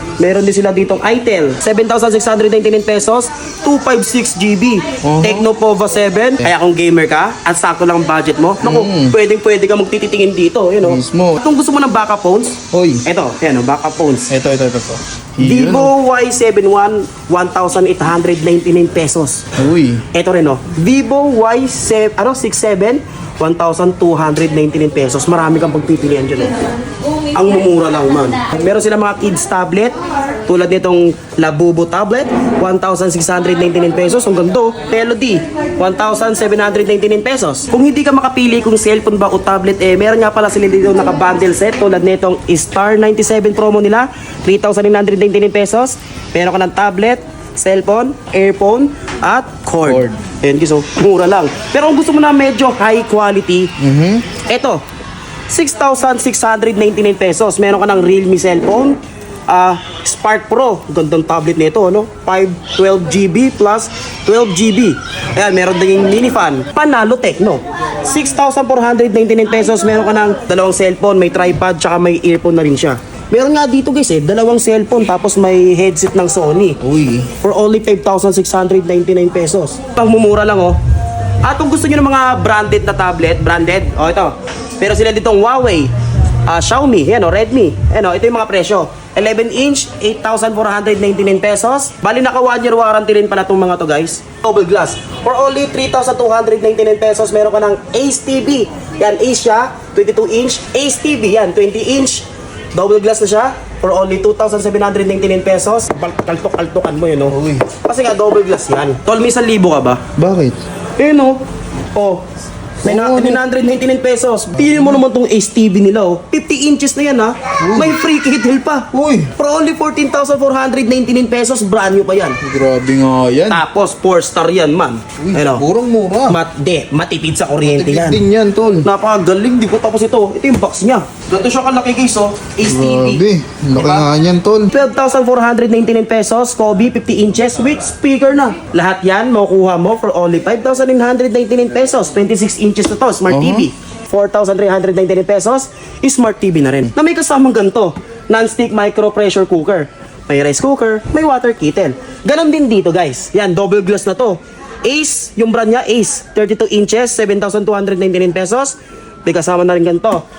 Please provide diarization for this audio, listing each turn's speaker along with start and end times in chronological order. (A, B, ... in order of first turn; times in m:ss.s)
0:00.2-0:14.3 A
0:05.0-0:05.5 B
0:08.6-0:09.2 B
0:10.8-0:11.4 B
0:12.7-0:13.0 B
0:14.3-0:15.9 B
0:15.4-0:19.5 A
0:19.6-0:20.0 B
0:20.1-0:26.6 A
0:27.3-0:30.0 A
0:30.5-0:53.7 A
0:49.8-0:50.2 B
0:53.8-0:54.2 B
0:54.4-0:54.8 A
0:55.5-1:16.8 A
1:16.8-1:17.3 B
1:17.4-1:20.8 A
1:21.4-1:25.9 A
1:26.5-1:50.0 A
1:47.3-1:47.7 B
1:50.2-1:50.6 B
1:51.0-1:51.4 A
1:51.9-1:52.2 A
1:52.8-1:53.4 B
1:52.8-2:02.4 A
1:57.6-1:58.0 B
1:58.9-1:59.3 B
2:02.4-2:03.6 B
2:03.5-2:05.6 A
2:05.2-2:06.4 B
2:06.3-2:08.2 A
2:07.7-2:08.9 B
2:08.8-2:13.2 A
2:12.6-2:14.7 B
2:13.8-2:14.1 A
2:14.7-2:38.8 A
2:23.3-2:23.7 B
2:39.3-2:40.2 A